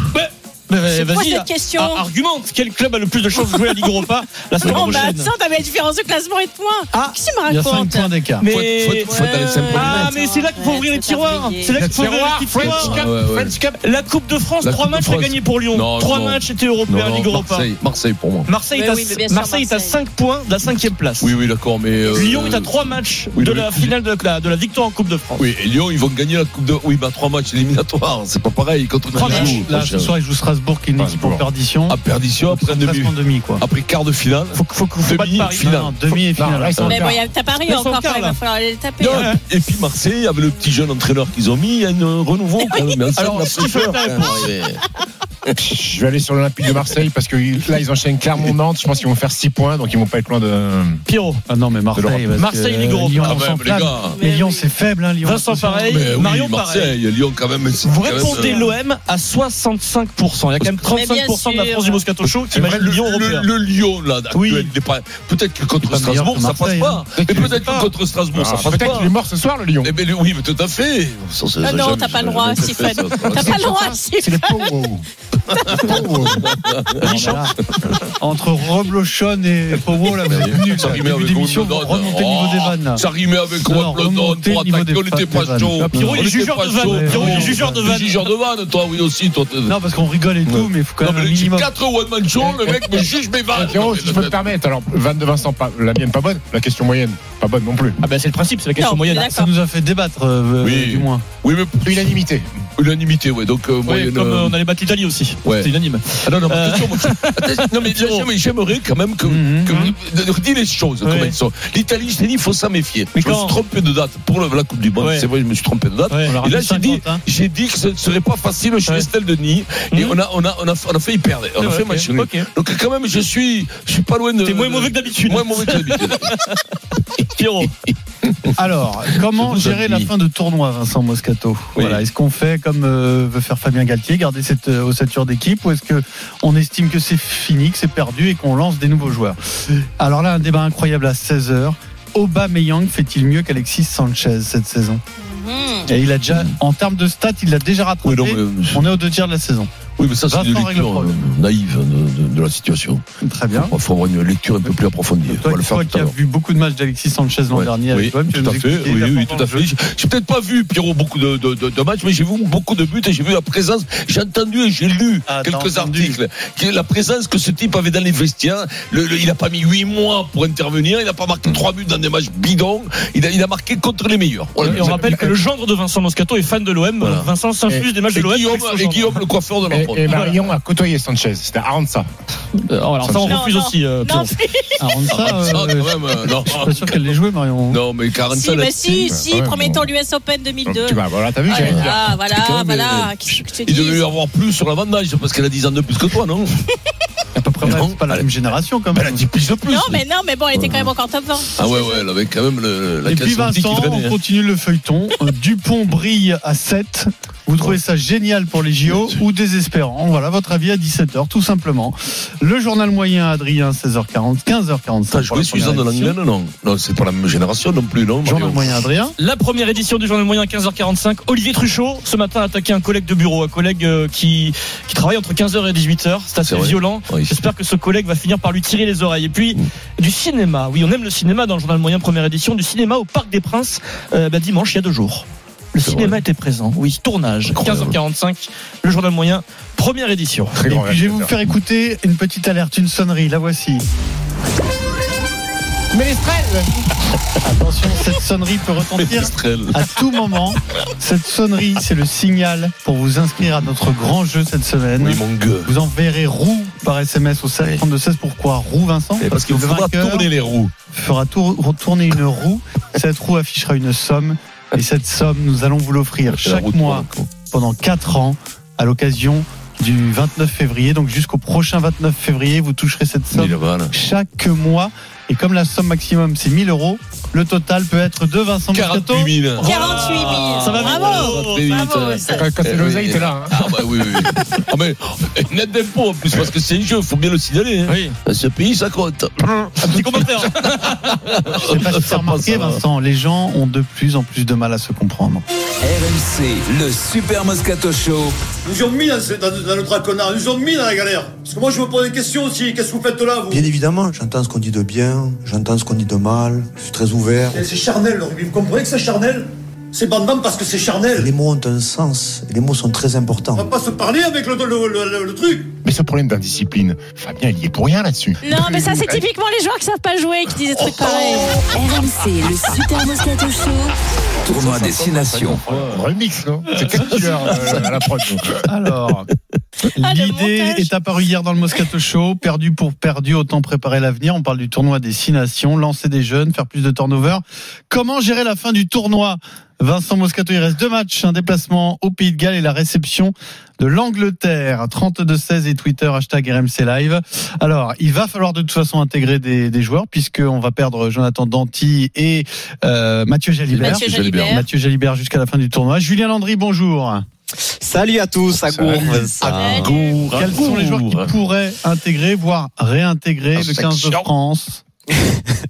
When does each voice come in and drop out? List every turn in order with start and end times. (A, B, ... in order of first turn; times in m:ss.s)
0:00.1-0:05.3 A
0:00.9-0:02.0 B
0:03.3-0:03.9 B
0:04.6-0:08.1 B
0:04.6-0:05.0 C
0:07.5-0:08.4 D
0:08.4-0:09.1 A
0:08.4-0:10.1 C
0:09.0-0:11.8 B
0:09.7-0:13.0 A
0:11.8-0:13.8 E
0:12.6-0:13.6 C
0:13.8-0:17.7 A
0:14.6-0:18.5 C
0:18.5-0:21.3 A
0:18.7-0:20.0 B
0:21.2-0:22.7 C
0:22.1-0:25.4 A
0:23.3-0:23.9 C
0:25.4-0:30.1 C
0:29.1-0:33.6 D
0:29.1-0:29.7 A
0:31.0-0:31.4 E
0:31.9-0:36.2 C
0:34.5-0:35.8 A
0:35.6-0:36.8 D
0:36.4-0:37.2 E
0:36.8-0:37.0 C
0:36.8-0:39.3 B
0:37.6-0:38.4 A
0:39.0-0:44.8 C
0:39.1-0:39.4 A
0:43.2-0:44.5 A
0:45.6-0:51.0 E
0:51.1-0:51.4 A
0:51.5-0:56.0 D
0:52.0-0:52.3 E
0:52.3-0:53.4 A
0:53.2-0:54.2 C
0:54.1-0:54.6 B
0:55.2-0:57.0 A
0:55.9-0:58.6 C
0:57.8-1:03.4 A
0:58.2-0:58.7 B
1:00.8-1:02.0 B
1:02.5-1:09.1 C
1:04.3-1:04.7 A
1:05.8-1:07.6 D
1:07.2-1:07.8 E
1:08.3-1:09.9 E
1:09.8-1:13.6 C
1:11.6-1:14.6 B
1:13.3-1:15.0 E
1:15.7-1:16.5 E
1:15.7-1:17.4 C
1:17.0-1:17.5 D
1:18.2-1:23.0 D
1:20.2-1:29.8 C
1:23.6-1:28.1 D
1:26.0-1:28.2 A
1:29.7-1:31.7 D
1:30.5-1:34.4 C
1:32.4-1:38.0 E
1:38.0-1:39.3 A
1:38.8-1:39.5 B
1:39.2-1:41.2 D
1:40.6-1:42.2 C
1:41.8-1:42.5 E
1:42.8-1:44.6 C
1:43.8-1:48.3 A
1:45.4-2:06.3 C
1:49.2-1:49.8 D
1:51.0-1:51.3 A
1:53.1-1:53.6 A
1:55.0-1:55.2 A
1:56.1-1:56.4 A
1:56.3-1:57.2 D
2:01.6-2:02.5 A
2:04.4-2:06.5 A
2:07.4-2:07.7 A
2:07.8-2:08.5 C
2:08.5-2:19.4 D
2:09.3-2:10.1 C
2:11.8-2:12.0 C
2:20.0-2:25.0 D
2:25.2-2:25.9 B
2:25.9-2:29.7 D
2:28.0-2:28.8 C
2:30.0-2:33.0 C
2:30.3-2:31.2 D
2:33.2-2:33.7 D
2:33.6-2:36.1 C
2:35.3-2:39.6 D
2:37.5-2:55.2 C
2:45.3-2:46.2 D
2:54.6-2:55.3 E
2:54.6-2:59.2 A
2:57.0-2:57.3 C
2:58.1-3:00.1 C
2:59.7-3:02.1 E
3:00.0-3:00.3 A
3:02.5-3:04.4 A
3:03.0-3:03.4 E
3:03.2-3:04.8 B
3:04.8-3:07.8 D
3:05.1-3:07.0 C
3:07.7-3:09.1 C
3:08.3-3:14.0 B
3:08.9-3:09.9 E
3:10.6-3:11.9 E
3:11.5-3:16.5 C
3:17.4-3:19.3 D
3:17.6-3:18.3 C
3:18.9-3:20.0 C
3:19.7-3:22.0 B
3:20.5-3:20.9 C
3:21.6-3:24.1 C
3:23.0-3:36.1 D
3:28.9-3:29.2 C
3:35.1-3:38.8 C
3:38.2-3:39.1 D
3:39.2-4:00.6 A
3:46.4-3:47.4 C
3:55.8-3:56.2 C
3:57.5-3:58.0 C
4:00.5-4:01.4 E
4:00.6-4:03.8 D
4:05.9-4:06.8 E
4:07.4-4:20.3 D
4:09.0-4:09.7 C
4:15.0-4:15.7 C
4:19.2-4:20.7 C
4:20.9-4:39.3 D
4:26.3-4:27.3 C
4:33.3-4:33.9 C
4:38.7-4:52.8 C
4:39.6-4:41.7 A
4:39.6-4:42.5 B
4:42.3-4:43.5 E
4:47.9-4:48.1 A
4:49.8-4:50.6 A
4:51.6-4:55.4 D
4:55.8-4:58.4 F
4:58.6-5:03.6 G
5:03.5-5:07.6 H
5:07.5-5:11.3 G
5:11.2-5:13.7 H
5:13.5-5:15.7 G
5:15.8-5:19.2 E
5:18.4-5:21.5 B
5:21.7-5:23.9 I
5:24.4-5:25.6 F
5:24.6-5:26.0 C
5:25.9-5:28.5 E
5:27.0-5:28.0 C
5:28.6-5:29.3 D
5:30.0-5:57.2 D
5:30.0-5:30.9 B
5:53.7-5:54.6 C
5:53.8-5:54.6 B
5:57.8-5:59.9 J
5:59.4-6:01.3 C
5:59.4-6:00.2 B
6:00.3-6:04.8 D
6:03.6-6:04.3 C
6:05.1-6:05.4 J